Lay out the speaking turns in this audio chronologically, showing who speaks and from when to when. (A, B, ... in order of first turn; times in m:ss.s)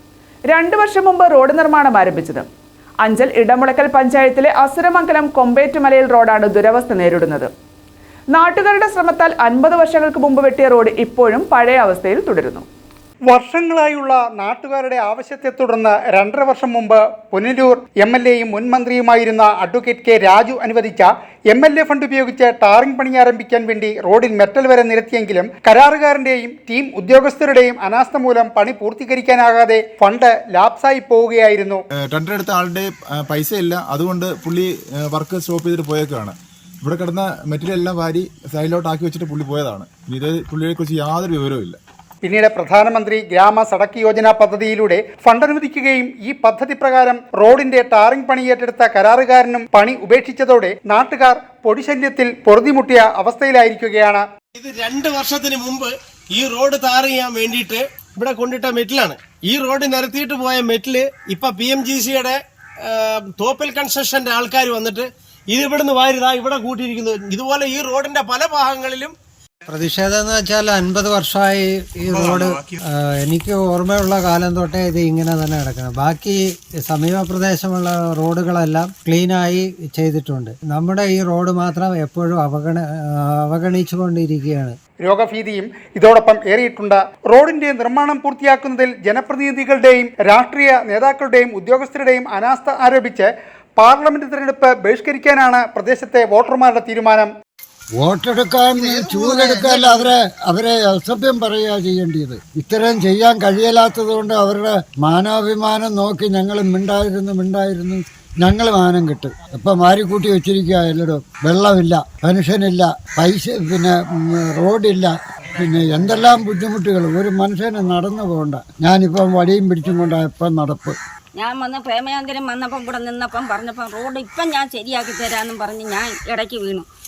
0:00.5-0:02.5 A
0:03.0-0:07.5 A
0:08.3-0:12.6 A
0:13.3-0:31.8 B
0:32.1-0:41.8 C
0:42.2-0:54.2 B
0:54.6-1:09.1 D
1:09.7-1:24.8 E
1:25.0-1:37.3 B
1:38.0-2:01.0 F
2:01.3-2:06.9 G